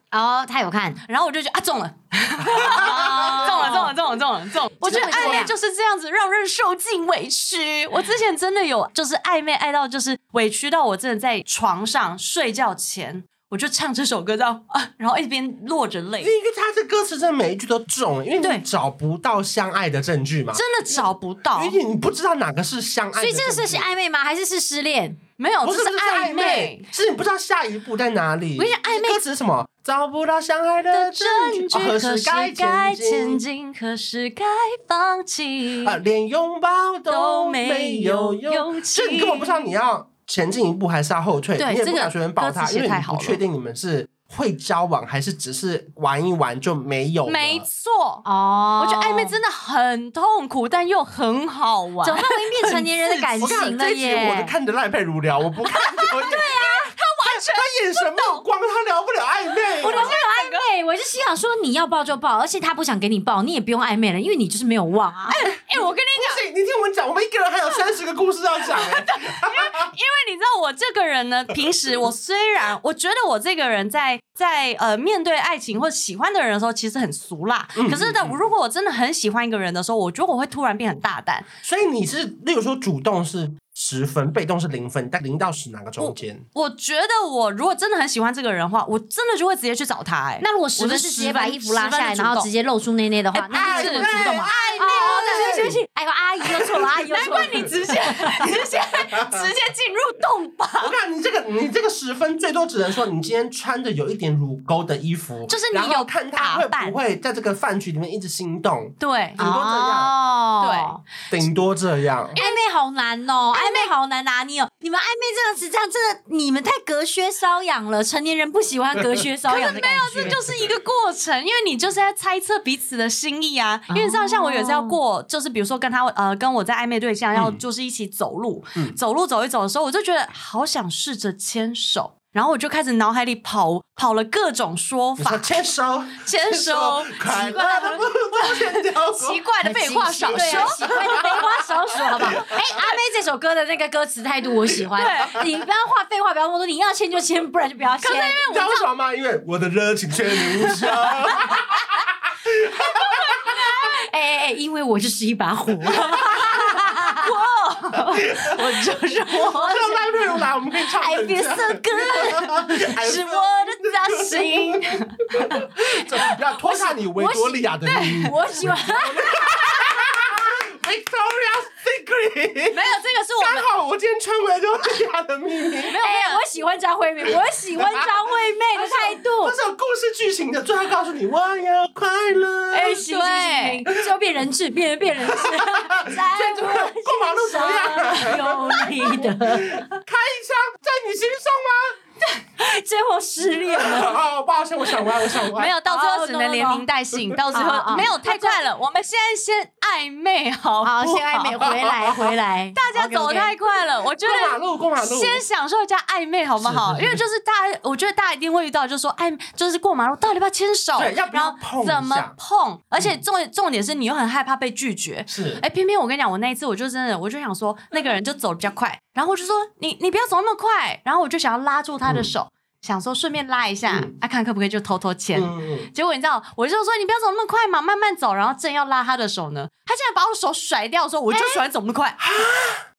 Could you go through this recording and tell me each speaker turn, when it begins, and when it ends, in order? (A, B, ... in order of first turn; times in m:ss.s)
0:00.1-0:01.0 A
0:01.1-0:16.3 B
0:02.5-0:03.8 C
0:02.7-0:04.0 A
0:04.8-0:05.5 A
0:04.9-0:05.4 C
0:16.2-0:23.9 C
0:20.5-0:21.8 B
0:23.2-0:25.2 A
0:25.4-0:26.9 B
0:25.6-0:33.4 C
0:28.6-0:29.2 B
0:30.9-0:36.0 B
0:35.8-0:47.6 C
0:37.1-0:39.7 B
0:41.6-0:43.4 B
0:47.3-0:48.3 B
0:48.2-0:49.4 A
0:48.8-0:53.7 B
0:52.0-0:54.5 A
0:53.4-0:56.5 C
0:56.0-0:58.4 B
0:56.2-0:56.9 A
0:57.3-1:00.2 C
0:59.8-1:00.6 B
0:59.8-1:05.4 A
1:05.3-1:06.4 B
1:05.7-1:09.9 C
1:08.6-1:21.5 B
1:17.8-1:18.4 C
1:21.6-1:26.4 C
1:26.0-1:32.5 B
1:30.4-1:38.5 A
1:33.4-1:35.6 B
1:33.5-1:35.8 C
1:36.5-1:36.8 C
1:37.1-1:41.0 B
1:39.0-1:39.4 C
1:40.8-1:50.2 C
1:45.5-1:47.0 B
1:49.0-1:49.4 B
1:49.4-1:51.0 A
1:50.6-1:51.0 B
1:51.3-1:52.4 C
1:52.4-1:52.6 B
1:52.4-2:00.4 A
1:53.5-1:53.9 B
1:59.5-2:15.6 B
2:03.9-2:05.0 A
2:07.3-2:07.6 C
2:15.2-2:19.4 C
2:16.2-2:21.5 B
2:19.6-2:28.4 A
2:20.3-2:22.6 C
2:22.3-2:23.0 B
2:24.7-2:25.2 C
2:25.0-2:25.4 B
2:28.0-2:28.9 B
2:28.5-2:33.6 C
2:30.7-2:31.5 B
2:33.5-2:37.3 A
2:35.9-2:36.6 C
2:36.4-2:39.9 B
2:38.0-2:38.6 C
2:39.3-2:52.8 C
2:39.4-2:40.1 A
2:40.9-2:43.0 A
2:42.9-2:45.3 B
2:46.6-2:50.4 A
2:47.9-2:48.4 B
2:52.7-2:53.7 B
2:53.4-2:56.0 C
2:55.8-2:56.4 B
2:56.0-2:59.6 A
2:57.8-2:58.1 C
2:58.7-3:03.0 C
3:02.7-3:09.8 A
3:02.8-3:03.8 B
3:05.3-3:12.0 C
3:12.6-3:14.2 A
3:13.7-3:15.7 C
3:15.5-3:21.7 B
3:15.8-3:16.9 A
3:17.5-3:18.6 A
3:20.8-3:23.6 A
3:21.6-3:22.3 C
3:22.8-3:52.2 B
3:24.2-3:25.4 C
3:26.6-3:27.2 C
3:31.0-3:32.3 C
3:35.3-3:35.6 C
3:45.4-3:45.9 C
3:51.3-3:51.6 A
3:52.2-3:52.8 C